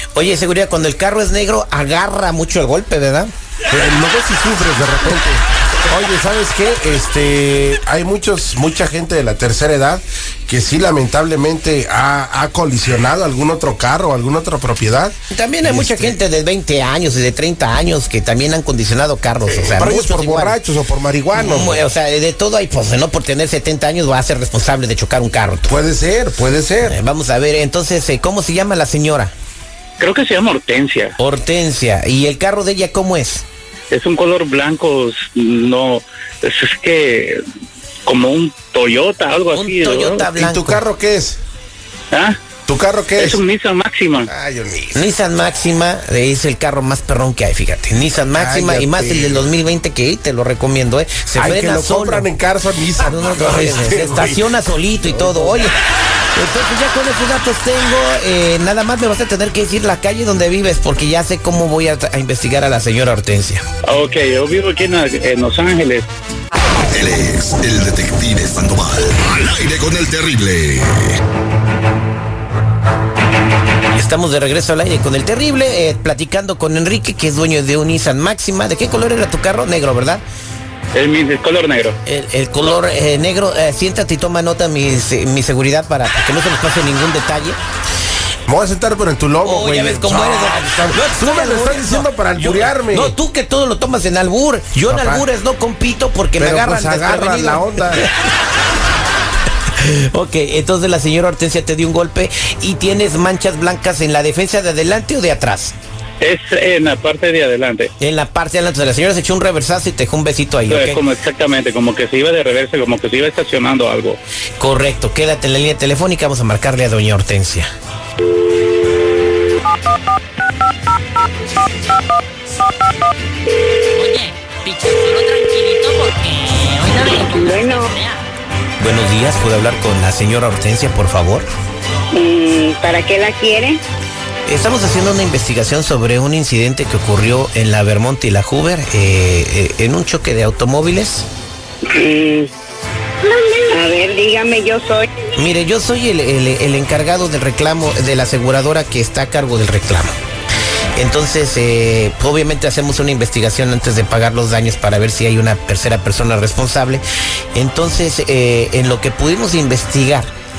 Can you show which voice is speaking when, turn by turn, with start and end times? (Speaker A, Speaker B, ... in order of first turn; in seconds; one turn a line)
Speaker A: 0.1-3.3
Speaker B: 3.7-15.1
Speaker A: 15.3-20.6
Speaker B: 15.6-16.1
Speaker B: 19.5-21.8
Speaker A: 21.3-25.8
Speaker B: 25.7-26.9
Speaker A: 26.8-29.3
Speaker C: 30.0-31.1
Speaker A: 31.2-33.4
Speaker C: 33.9-37.4
Speaker C: 38.1-40.2
Speaker A: 39.5-40.8
Speaker B: 40.4-41.4
Speaker C: 42.1-42.4
Speaker B: 42.7-43.4
Speaker C: 43.2-44.3
Speaker B: 44.3-45.0
Speaker A: 44.9-52.3
Speaker B: 48.3-49.5
Speaker B: 51.3-54.5
Speaker A: 53.0-55.8
Speaker B: 55.0-55.6
Speaker A: 56.3-63.6
Speaker C: 63.8-66.1
Speaker D: 66.8-71.2
Speaker A: 73.9-80.2
Speaker C: 80.9-82.0
Speaker A: 82.1-87.6
Speaker B: 88.5-93.1
Speaker A: 89.4-98.1
Speaker B: 94.9-95.2
Speaker B: 96.4-98.0
Speaker A: 99.8-105.8
Speaker C: 106.2-107.9
Speaker A: 108.0-111.0
Speaker C: 110.7-114.2
Speaker A: 114.6-117.7
Speaker E: 124.0-127.8
Speaker F: 127.0-127.9
Speaker A: 128.8-131.5
Speaker F: 132.1-133.8
Speaker A: 134.5-141.3
Speaker F: 141.9-142.5
Speaker F: 143.7-145.1
Speaker A: 145.4-150.1
Speaker A: 150.9-160.3